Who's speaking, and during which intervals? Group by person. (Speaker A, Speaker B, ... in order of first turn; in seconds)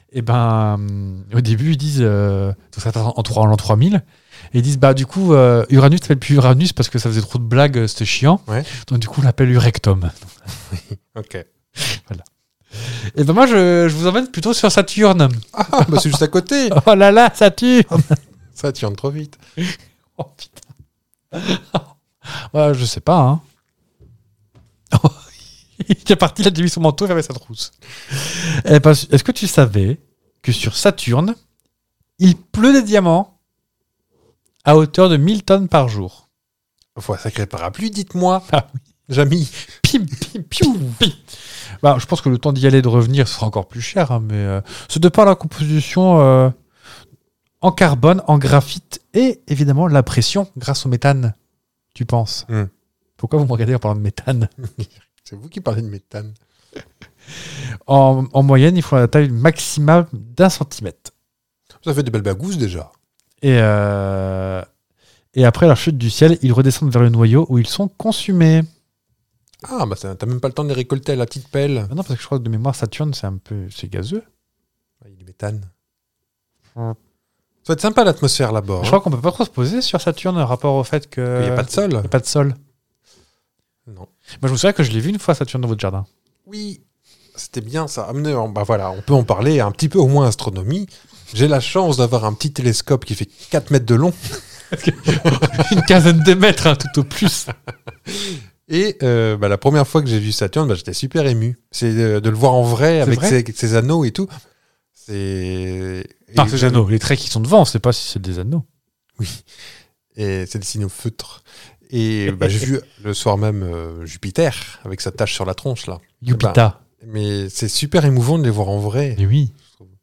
Speaker A: 0.1-10.3, 11.8-16.1, 16.7-18.2, 19.6-20.7, 21.3-23.4, 24.9-25.2, 25.8-31.4, 32.2-33.3, 34.6-36.2, 39.8-46.5, 47.6-51.3, 51.9-52.5, 53.2-54.5, 57.4-61.1, 63.4-64.7, 65.3-68.7, 71.9-74.2, 78.8-82.6, 84.4-86.1, 94.7-97.5, 103.0-103.4, 106.3-108.6, 116.2-116.8, 119.2-119.5
Speaker B: 10.7-11.4, 15.5-16.8, 18.5-19.4, 37.0-38.5, 39.1-39.6, 54.6-56.4, 61.8-62.9, 69.6-71.9, 75.0-75.7, 77.6-79.0, 81.3-82.1, 86.5-86.8, 87.3-94.4, 95.1-95.8, 98.1-104.3, 105.0-106.8, 109.2-109.5, 110.1-119.2